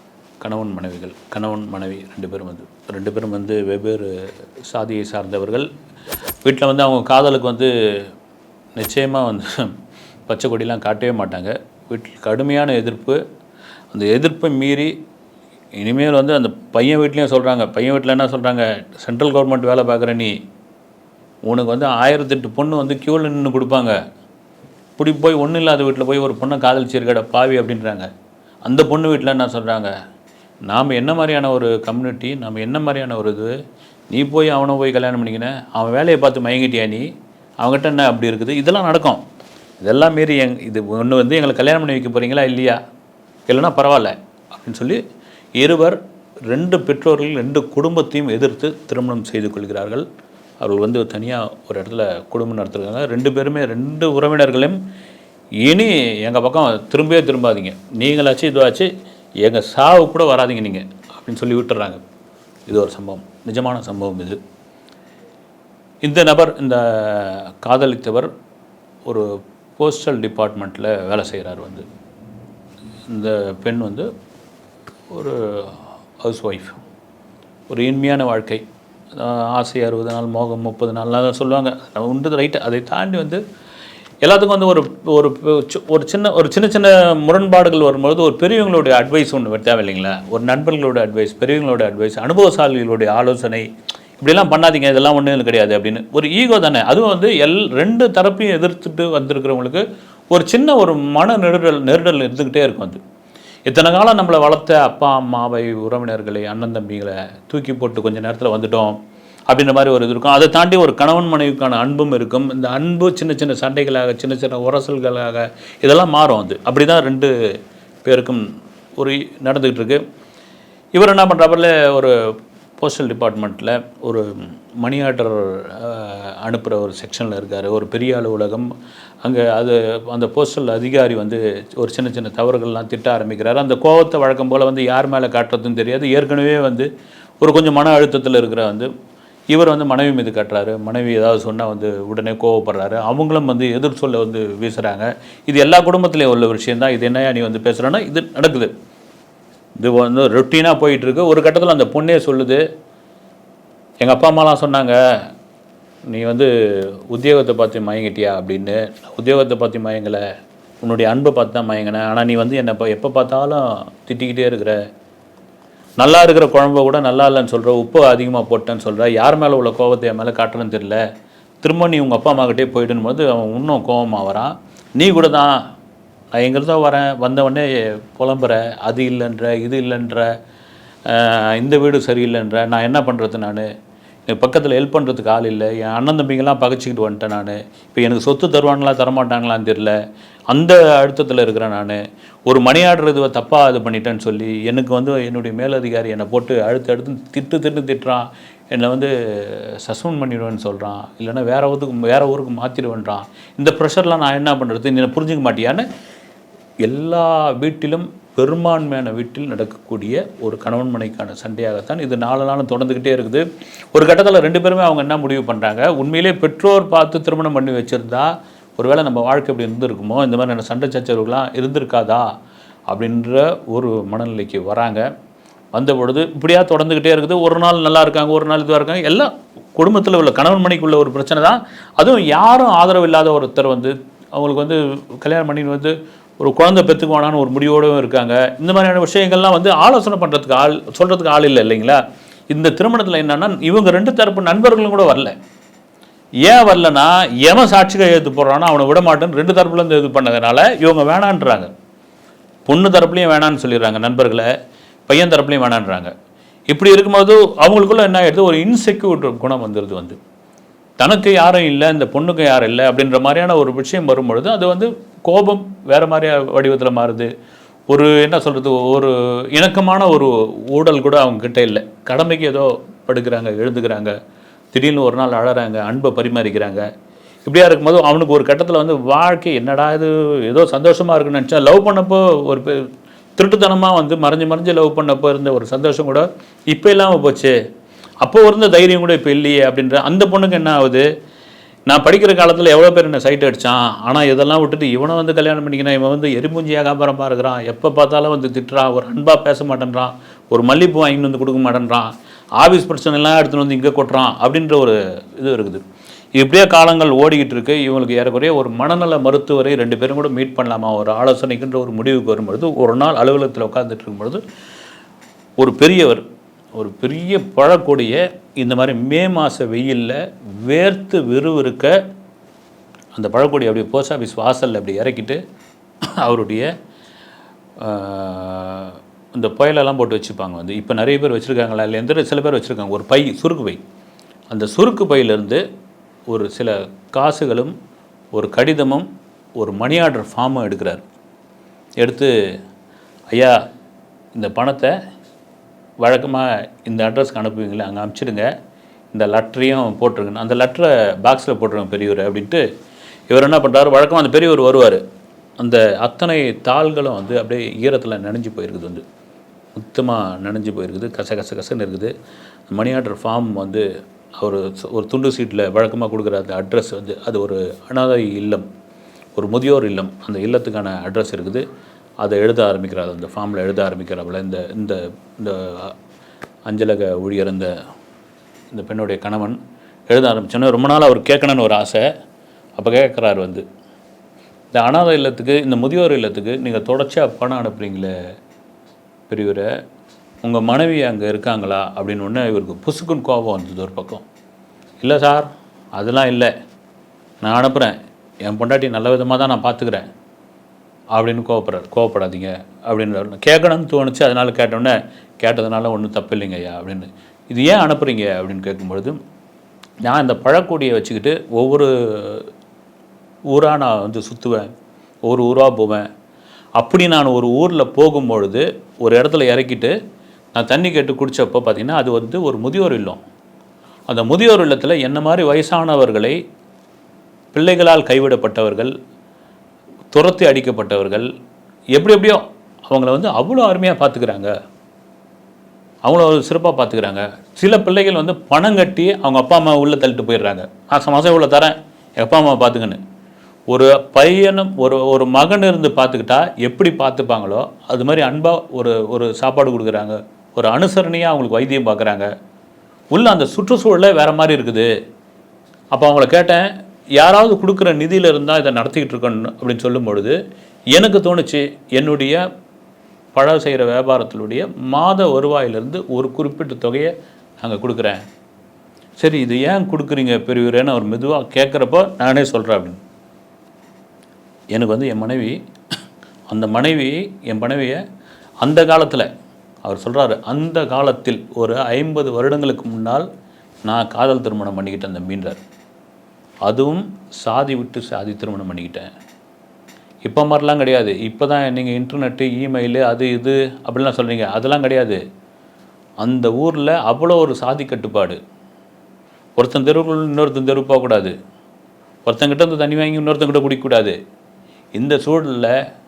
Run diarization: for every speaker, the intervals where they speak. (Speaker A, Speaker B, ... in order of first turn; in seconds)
Speaker A: 0.4-4.1, 4.7-5.7, 6.4-8.1, 8.8-9.5, 10.3-13.2, 13.9-14.9, 15.8-20.3, 21.4-24.0, 25.0-28.1, 28.6-29.9, 30.7-33.5, 34.1-37.1, 37.6-39.2, 39.8-42.8, 43.5-45.0, 45.6-46.0, 46.5-50.0, 50.6-54.8, 55.6-58.9, 59.4-62.0, 62.7-64.4, 66.0-68.3, 69.0-71.8, 73.1-74.1, 75.1-76.8, 77.7-83.4, 84.2-93.7, 94.2-103.0, 103.7-109.0, 109.5-117.3, 118.0-120.0, 120.9-122.2, 122.8-128.7, 129.2-136.9, 137.4-138.9, 139.5-148.7, 149.8-152.6, 154.0-155.0, 156.1-156.5, 157.1-160.2, 160.8-164.8, 166.0-171.0, 171.6-175.6, 176.3-180.3, 181.1-183.7, 184.3-189.9, 190.5-205.9, 206.8-222.3, 222.9-225.1, 225.7-245.3, 246.4-251.7, 252.7-254.5, 255.1-256.1, 256.7-260.2, 261.0-267.3, 267.9-274.1, 274.7-276.9, 277.4-287.5, 288.2-291.1, 291.9-305.8, 306.4-314.4, 315.6-316.2, 316.7-321.9, 323.1-325.4, 326.1-326.7, 327.8-333.8, 334.5-335.6, 336.3-337.7, 338.3-341.0, 342.0-342.3, 343.3-343.6, 344.3-344.9, 346.0-348.5, 349.1-352.6, 353.3-355.0, 355.6-359.0, 359.7-362.1, 362.7-363.8, 364.4-368.6, 369.4-371.6, 372.2-375.9, 376.7-377.7, 378.7-379.6, 380.1-382.0, 382.8-383.6, 384.7-388.1, 389.3-389.7, 390.4-394.2, 395.0-396.5, 397.4-400.1, 401.1-409.2, 410.0-412.5, 413.5-414.7, 415.2-416.1, 416.8-419.9, 420.5-423.2, 424.1-426.4, 427.5-428.9, 430.1-431.2, 431.9-434.5, 436.0-443.0, 443.7-452.3, 453.1-454.9, 455.9-460.4, 460.9-462.4, 463.3-468.2, 469.2-473.0, 474.7-475.6, 476.5-478.0, 478.6-479.3, 479.8-483.2, 483.9-485.6, 486.6-489.1, 490.2-495.2, 496.2-498.4, 499.6-501.3, 502.2-504.1, 504.9-505.7